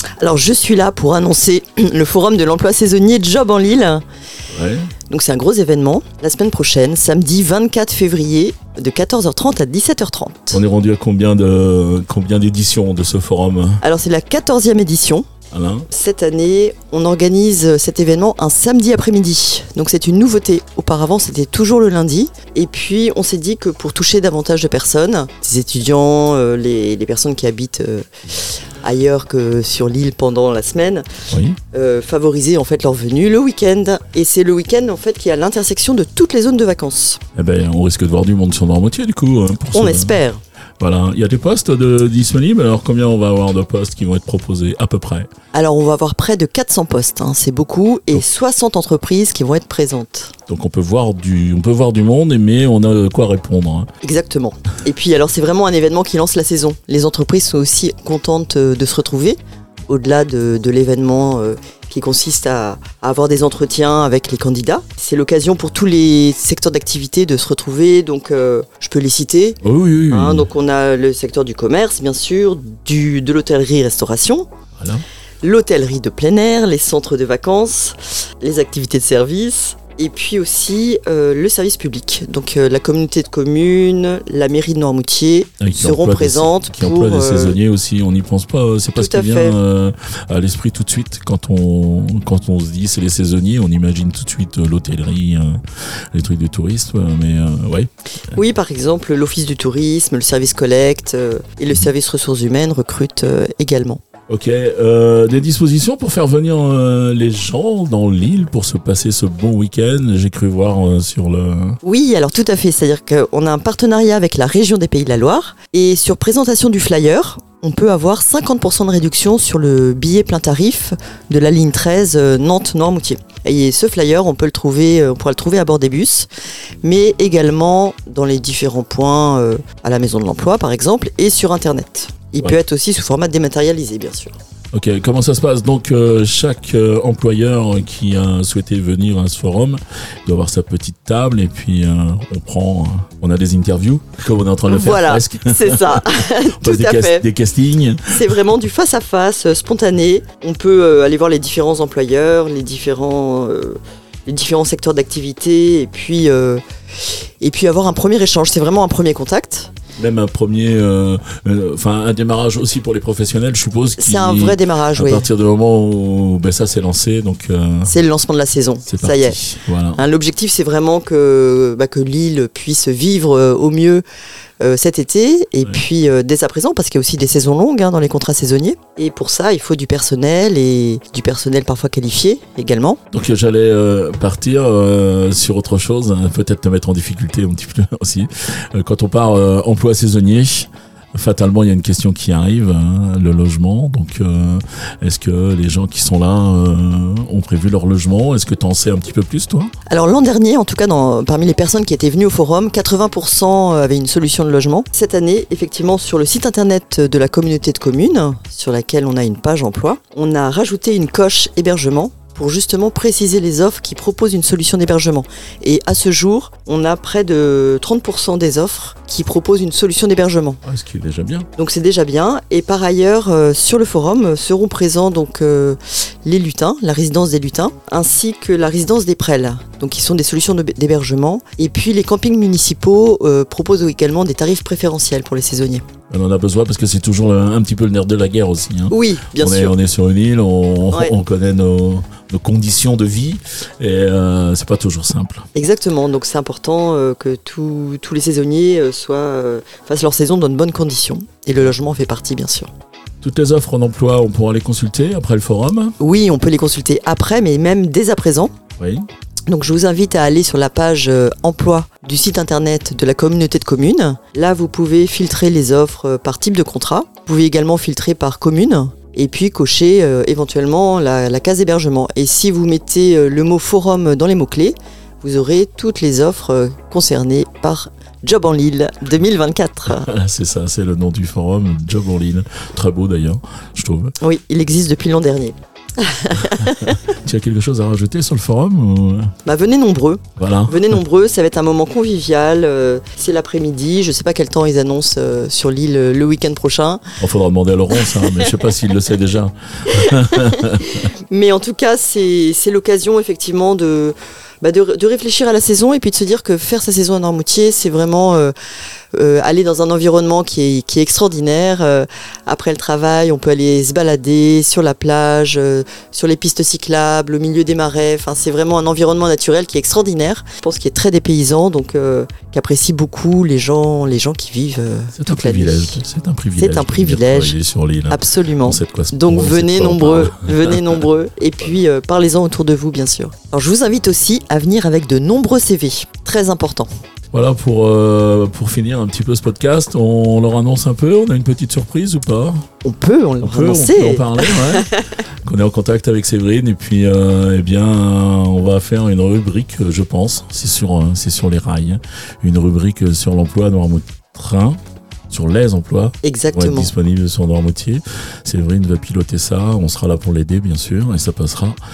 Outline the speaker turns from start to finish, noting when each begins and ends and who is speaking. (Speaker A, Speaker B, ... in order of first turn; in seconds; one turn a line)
Speaker A: 0.2-4.0
Speaker B: 4.5-4.9
Speaker A: 5.1-10.6
Speaker B: 10.5-13.8
Speaker A: 13.8-15.3
Speaker B: 15.5-15.9
Speaker A: 15.9-31.1
Speaker B: 31.3-31.6
Speaker A: 31.7-37.2
Speaker B: 37.4-40.2
Speaker A: 39.7-40.4
Speaker B: 40.8-45.3
Speaker A: 45.5-50.3
Speaker B: 50.5-53.9
Speaker A: 54.0-74.5
Speaker B: 69.6-70.5
Speaker B: 74.8-75.0
Speaker A: 75.4-87.6
Speaker B: 85.6-95.6
Speaker A: 89.0-89.6
Speaker B: 96.1-98.4
Speaker A: 98.3-104.0
Speaker B: 104.3-111.8
Speaker A: 111.8-126.3
Speaker A: 126.8-134.4
Speaker B: 134.7-148.4
Speaker A: 144.7-147.3
Speaker A: 148.1-159.7
Speaker B: 160.0-167.9
Speaker A: 164.0-165.3
Speaker A: 167.9-169.4
Speaker B: 168.9-170.1
Speaker A: 169.9-174.0
Speaker A: 174.6-183.0
Speaker B: 183.1-199.7
Speaker A: 199.9-220.6
Speaker B: 220.6-221.5
Speaker A: 221.6-235.8
Speaker B: 236.1-245.5
Speaker A: 238.9-239.8
Speaker A: 245.6-252.7
Speaker B: 253.2-256.0
Speaker A: 256.0-258.5
Speaker B: 258.8-259.1
Speaker A: 259.5-280.1
Speaker B: 279.9-284.1
Speaker A: 284.2-287.0
Speaker B: 286.5-289.3
Speaker A: 289.4-297.2
Speaker B: 290.4-291.0
Speaker B: 297.2-301.1
Speaker A: 297.9-298.5
Speaker A: 299.9-308.5
Speaker A: 309.1-326.0
Speaker B: 325.1-331.0
Speaker A: 326.6-327.6
Speaker A: 328.1-336.9
Speaker B: 337.3-342.7
Speaker A: 342.8-345.0
Speaker B: 343.4-354.8
Speaker B: 355.3-361.8
Speaker A: 356.2-356.9